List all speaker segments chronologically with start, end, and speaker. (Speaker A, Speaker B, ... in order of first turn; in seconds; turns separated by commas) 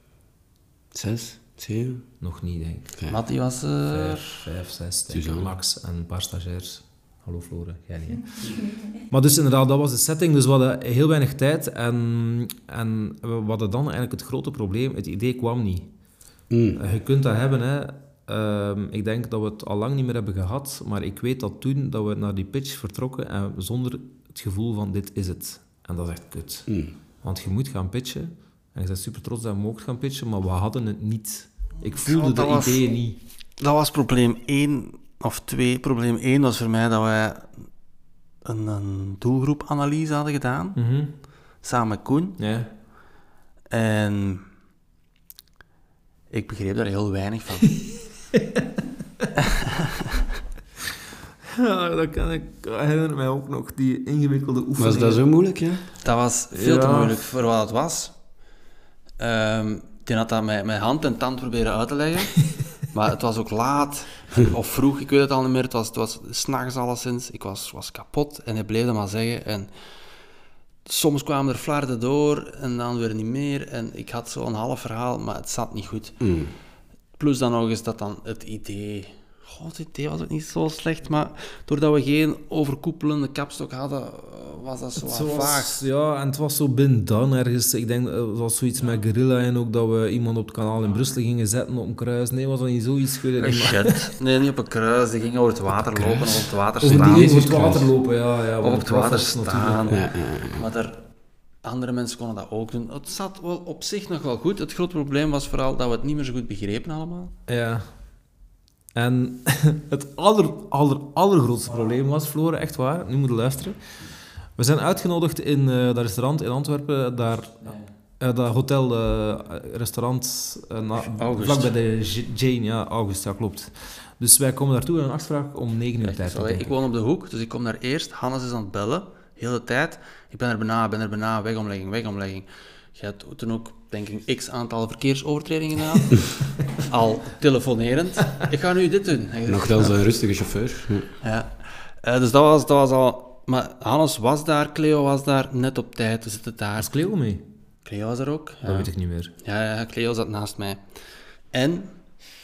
Speaker A: 0.9-2.0, Speaker B: 2.2-2.9, Speaker C: 3.1-4.5, Speaker B: 3.9-15.9, Speaker A: 5.1-5.5, Speaker A: 16.5-16.8, Speaker B: 16.8-26.7, Speaker A: 26.7-26.9, Speaker B: 27.2-33.2, Speaker C: 31.9-32.8, Speaker C: 33.6-37.5, Speaker C: 38.4-40.8, Speaker B: 40.7-41.1, Speaker C: 41.6-42.4, Speaker B: 42.4-42.7, Speaker C: 43.7-44.5, Speaker C: 46.3-47.8, Speaker B: 48.3-48.6, Speaker C: 49.4-50.0, Speaker B: 51.5-55.2, Speaker A: 54.8-55.8, Speaker C: 56.0-58.1, Speaker B: 56.5-57.2, Speaker C: 59.2-69.7, Speaker C: 70.8-76.2, Speaker A: 76.2-76.5, Speaker C: 77.2-85.8, Speaker B: 85.0-94.0, Speaker C: 93.4-97.9, Speaker A: 95.9-96.3, Speaker B: 96.8-100.0, Speaker A: 96.8-97.6, Speaker C: 98.6-101.0, Speaker A: 99.9-100.6, Speaker C: 101.6-107.3, Speaker B: 107.5-107.8, Speaker B: 108.9-113.8, Speaker B: 114.6-126.7, Speaker C: 121.0-121.7, Speaker C: 126.0-140.0, Speaker A: 139.4-141.1, Speaker C: 141.2-146.9, Speaker B: 146.8-147.4, Speaker C: 147.8-150.8, Speaker B: 148.6-149.3, Speaker C: 151.5-151.9